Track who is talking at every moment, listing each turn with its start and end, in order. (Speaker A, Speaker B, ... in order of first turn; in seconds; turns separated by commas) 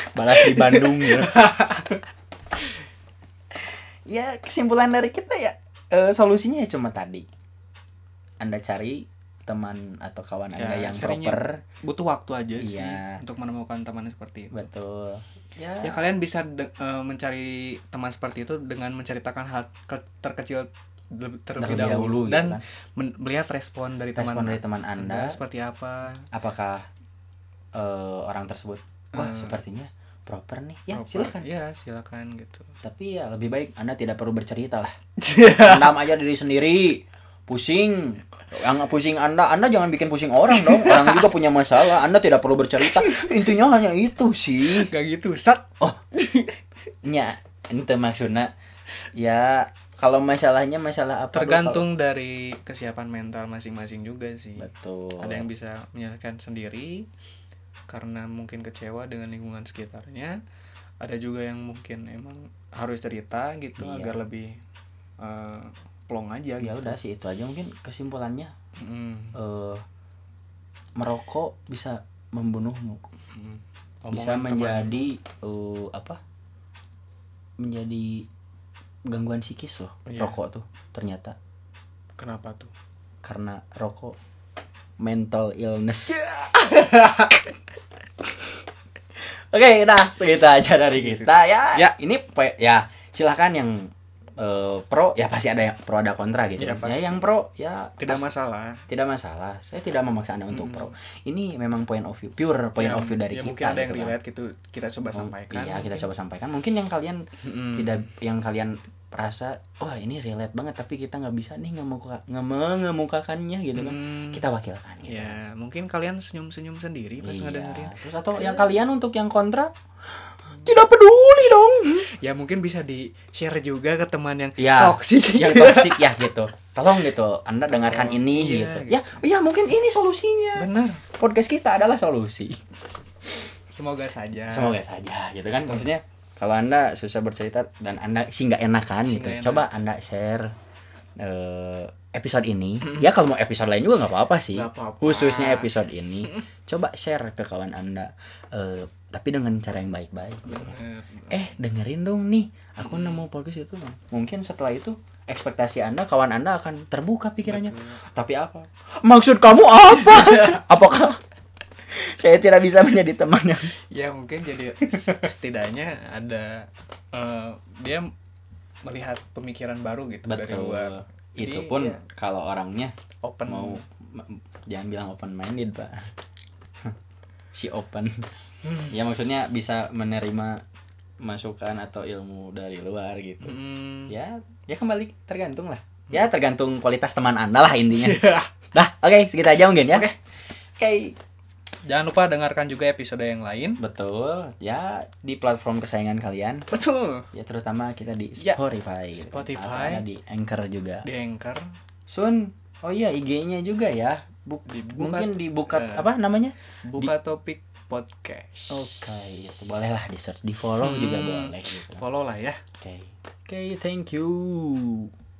Speaker A: 0.1-1.4, Speaker B: 0.3-2.0, Speaker A: 3.5-7.3, Speaker A: 8.4-11.6, Speaker B: 10.6-14.6, Speaker A: 12.6-13.2, Speaker A: 14.5-16.0, Speaker B: 15.8-26.3, Speaker A: 21.6-22.6, Speaker A: 24.1-25.4, Speaker A: 26.3-26.9, Speaker A: 27.7-31.5, Speaker B: 29.1-29.6, Speaker B: 30.9-32.7, Speaker A: 32.8-35.0, Speaker B: 35.2-36.0, Speaker A: 35.5-44.9, Speaker B: 40.5-41.3, Speaker B: 42.9-43.3, Speaker B: 44.7-46.6, Speaker A: 47.0-48.5, Speaker A: 49.1-51.8, Speaker B: 51.3-57.1, Speaker A: 54.6-55.5, Speaker B: 57.9-60.4, Speaker B: 61.0-64.6, Speaker A: 63.8-64.1, Speaker B: 65.2-67.0, Speaker A: 66.6-68.5, Speaker B: 68.8-69.3, Speaker A: 69.3-69.8, Speaker A: 71.0-73.0, Speaker B: 73.3-75.1, Speaker A: 74.1-76.2, Speaker A: 77.6-78.3, Speaker A: 79.1-81.3, Speaker B: 80.0-80.4, Speaker B: 82.2-82.7, Speaker A: 83.2-84.2, Speaker A: 85.0-86.2, Speaker B: 86.2-87.5, Speaker A: 89.2-98.3, Speaker B: 90.9-91.9, Speaker B: 96.6-97.2, Speaker B: 98.0-98.8, Speaker A: 98.9-104.2, Speaker B: 100.5-100.9, Speaker B: 102.8-106.1, Speaker A: 105.1-115.4, Speaker B: 107.4-108.0, Speaker B: 113.7-114.4, Speaker B: 115.0-118.7, Speaker A: 117.2-119.7, Speaker A: 120.6-122.1, Speaker B: 122.0-126.1, Speaker A: 124.6-132.6, Speaker B: 127.7-129.0, Speaker B: 130.5-131.0, Speaker B: 133.7-134.8, Speaker A: 134.5-140.5, Speaker B: 139.0-139.7, Speaker A: 141.2-150.8, Speaker B: 144.5-145.7, Speaker B: 150.4-151.5, Speaker A: 151.3-161.2, Speaker B: 152.8-153.2, Speaker B: 157.4-158.0, Speaker B: 160.0-160.6, Speaker A: 161.9-163.7, Speaker B: 163.9-168.1, Speaker A: 164.8-165.3, Speaker B: 168.8-172.0, Speaker A: 170.2-172.9, Speaker B: 173.2-173.8, Speaker A: 173.5-176.1, Speaker A: 177.5-178.2, Speaker B: 178.6-178.9, Speaker A: 178.9-180.6, Speaker A: 181.2-190.1, Speaker B: 183.4-184.1, Speaker B: 187.9-188.5, Speaker A: 190.8-191.2, Speaker B: 191.8-193.8, Speaker A: 193.8-196.7, Speaker B: 196.7-197.3, Speaker A: 197.3-201.1, Speaker B: 199.1-200.0, Speaker B: 201.0-201.7, Speaker A: 202.1-207.1, Speaker B: 204.7-206.1, Speaker B: 206.8-208.9, Speaker A: 208.7-212.0, Speaker B: 210.8-212.6, Speaker A: 212.8-215.1